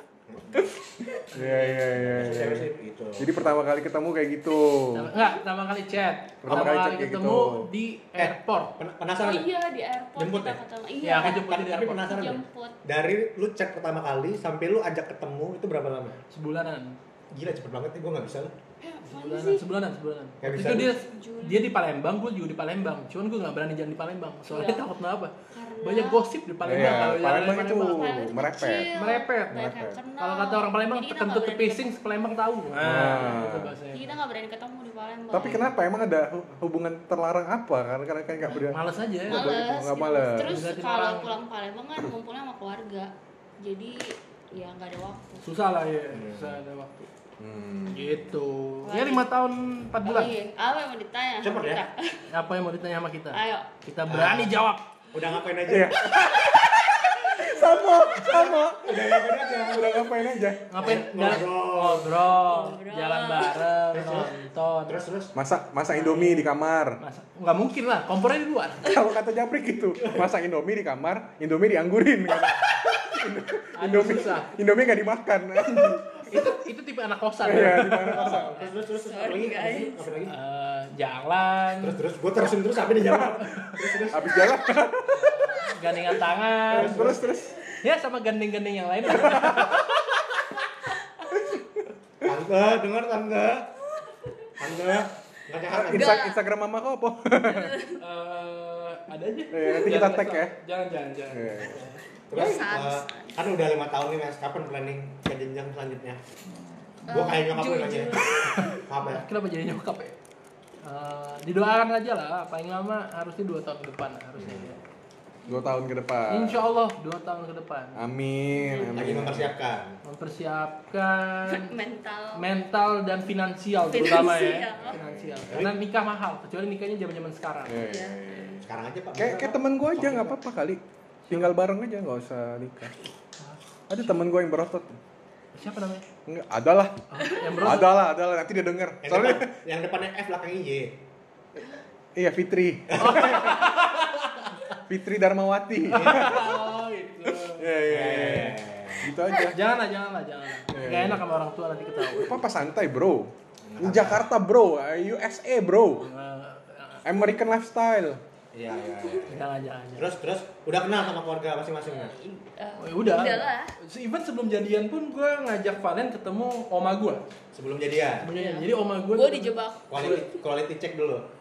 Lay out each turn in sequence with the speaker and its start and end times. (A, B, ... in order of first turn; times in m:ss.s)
0:00.3-0:00.6 A
0:00.5-0:05.1 B
0:01.3-0:02.2 C
0:02.0-0:03.5 A
0:04.9-0:08.8 C
0:06.4-0:07.7 B
0:08.2-0:09.5 A
0:09.2-0:11.4 D
0:10.2-0:10.6 A
0:11.0-0:12.2 C
0:11.2-0:16.2 A
0:12.0-0:12.8 D
0:16.3-0:17.0 C
0:17.3-0:18.5 A
0:18.8-0:19.6 D
0:19.1-0:28.2 C
0:20.4-0:20.9 A
0:20.8-0:21.7 D
0:24.5-0:24.9 D
0:25.5-0:27.2 D
0:26.6-0:28.9 B
0:27.8-0:31.9 D
0:29.0-0:29.6 C
0:29.5-0:30.0 B
0:30.2-0:34.1 C
0:32.8-0:33.8 B
0:33.9-0:35.7 D
0:35.3-0:40.6 B
0:38.5-0:39.5 C
0:39.3-0:45.4 D
0:40.4-0:41.4 C
0:45.4-0:47.1 C
0:46.1-0:46.6 A
0:47.4-0:48.2 B
0:47.9-0:50.4 C
0:48.8-0:49.3 D
0:50.0-0:52.2 D
0:51.4-0:51.8 A
0:52.3-0:54.8 C
0:53.3-0:53.7 D
0:54.1-0:54.6 A
0:55.1-0:56.1 A
0:55.7-1:00.7 B
0:58.1-0:59.9 A
1:00.7-1:05.0 C
1:00.8-1:02.2 A
1:02.4-1:03.6 D
1:03.9-1:04.3 A
1:04.9-1:05.3 A
1:05.4-1:07.0 B
1:05.9-1:08.9 C
1:08.8-1:16.5 B
1:13.8-1:14.5 C
1:15.6-1:18.6 C
1:17.4-1:18.6 B
1:18.0-1:20.3 A
1:18.9-1:20.2 D
1:20.3-1:22.0 C
1:21.8-1:24.7 A
1:23.1-1:24.1 C
1:24.1-1:25.5 B
1:25.1-1:27.2 C
1:26.7-1:27.6 B
1:26.7-1:27.5 A
1:27.7-1:30.0 C
1:29.2-1:29.8 B
1:32.2-1:33.7 A
1:34.6-1:36.2 A
1:35.7-1:37.8 B
1:35.9-1:36.4 D
1:37.4-1:38.0 D
1:38.0-1:42.0 C
1:39.5-1:40.5 B
1:41.3-1:41.8 B
1:42.3-1:46.2 A
1:42.3-1:43.4 D
1:46.5-1:47.0 C
1:47.1-1:48.8 D
1:47.1-1:49.2 A
1:48.4-1:50.2 C
1:50.8-1:54.8 C
1:54.4-1:54.8 A
1:55.5-1:56.7 B
1:56.3-1:58.0 C
1:58.0-1:59.5 B
1:58.6-1:59.1 D
1:58.9-2:00.0 A
2:00.0-2:01.7 C
2:01.5-2:02.5 D
2:02.4-2:07.8 C
2:03.8-2:05.0 D
2:04.8-2:05.5 B
2:07.7-2:13.0 B
2:07.8-2:08.7 D
2:08.7-2:10.4 A
2:11.3-2:11.6 C
2:13.9-2:15.0 B
2:15.6-2:16.1 C
2:16.3-2:17.0 B
2:17.1-2:17.9 C
2:17.5-2:19.5 B
2:19.0-2:20.9 A
2:22.2-2:23.7 B
2:22.9-2:23.6 A
2:23.0-2:24.8 C
2:24.9-2:26.6 B
2:25.9-2:27.7 C
2:26.0-2:26.3 A
2:27.2-2:29.6 B
2:27.9-2:29.1 A
2:29.4-2:32.4 C
2:30.7-2:31.2 B
2:32.0-2:36.1 B
2:33.6-2:34.3 A
2:36.0-2:37.0 C
2:37.0-2:38.2 B
2:38.5-2:39.5 A
2:38.7-2:39.2 D
2:39.3-2:40.1 C
2:40.0-2:42.1 A
2:41.8-2:43.7 D
2:42.8-2:47.2 C
2:47.5-2:48.3 A
2:48.2-2:50.2 C
2:48.3-2:50.2 D
2:49.9-2:51.3 A